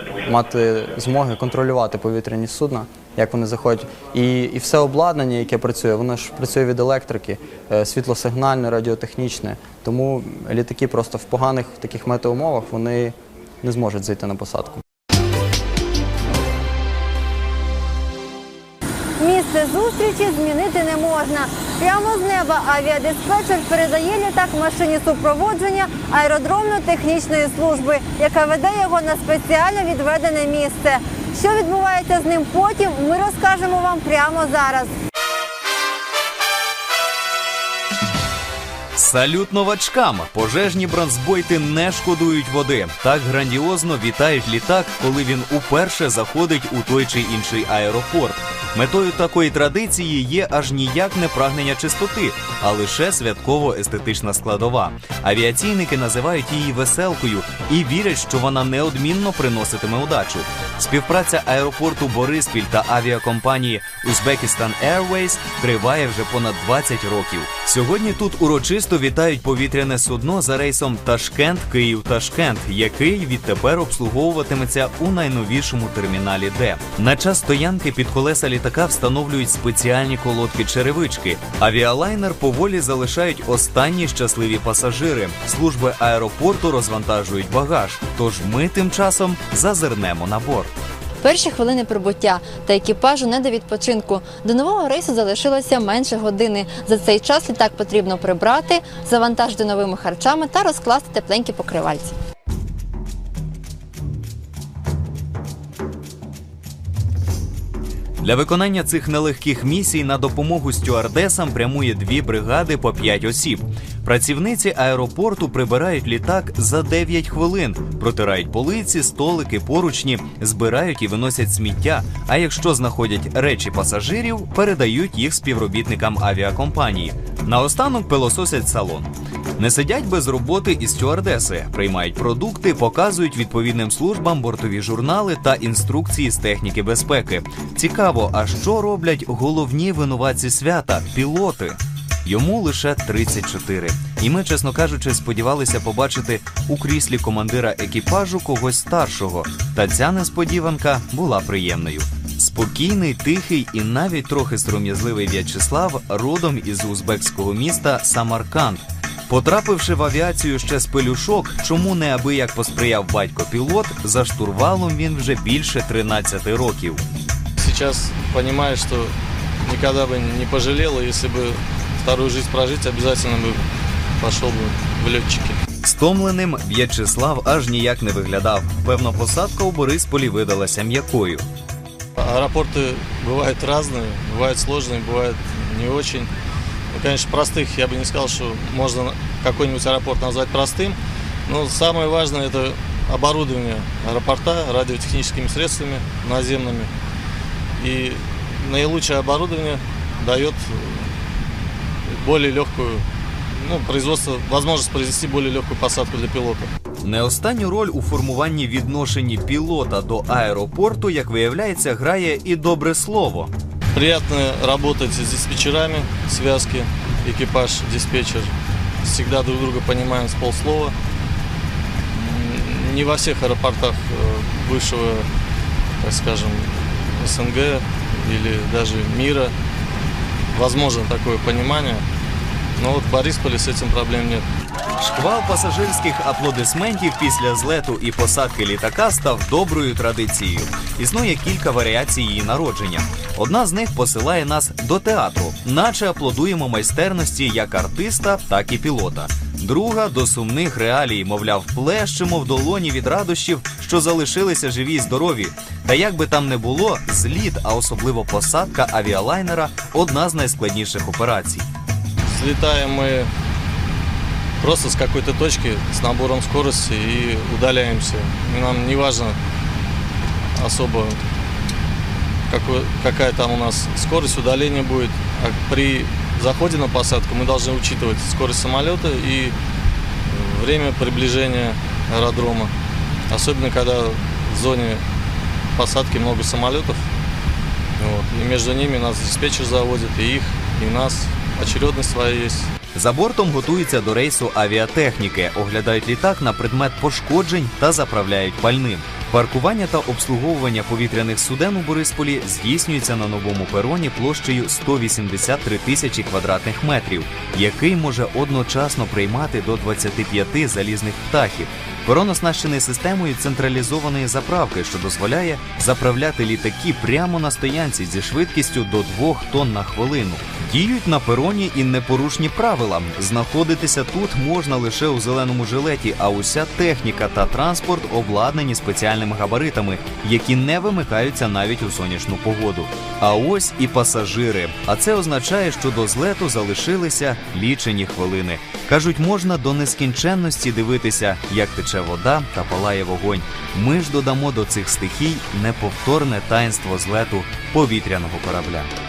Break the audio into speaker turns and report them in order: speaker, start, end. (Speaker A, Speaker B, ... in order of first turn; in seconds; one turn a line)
Speaker A: 0.2-14.8
Speaker B: 19.2-34.9
Speaker C: 39.0-90.7
Speaker B: 91.2-102.1
Speaker C: 108.2-167.0
Speaker D: 167.6-173.7
Speaker D: 174.2-175.6
Speaker C: 175.8-181.5
Speaker D: 182.2-186.3
Speaker D: 186.9-196.9
Speaker D: 197.8-201.1
Speaker D: 202.1-206.7
Speaker C: 207.0-213.5
Speaker D: 213.9-220.9
Speaker D: 222.1-225.3
Speaker D: 226.0-229.5
Speaker D: 230.5-232.0
Speaker D: 232.8-234.4
Speaker C: 235.0-261.7
Speaker D: 262.3-263.3
Speaker D: 264.6-269.4
Speaker D: 270.6-271.2
Speaker D: 272.5-279.6
Speaker D: 280.3-282.7
Speaker D: 283.3-285.0
Speaker D: 285.7-287.0
Speaker D: 288.0-292.7
Speaker C: 292.9-348.9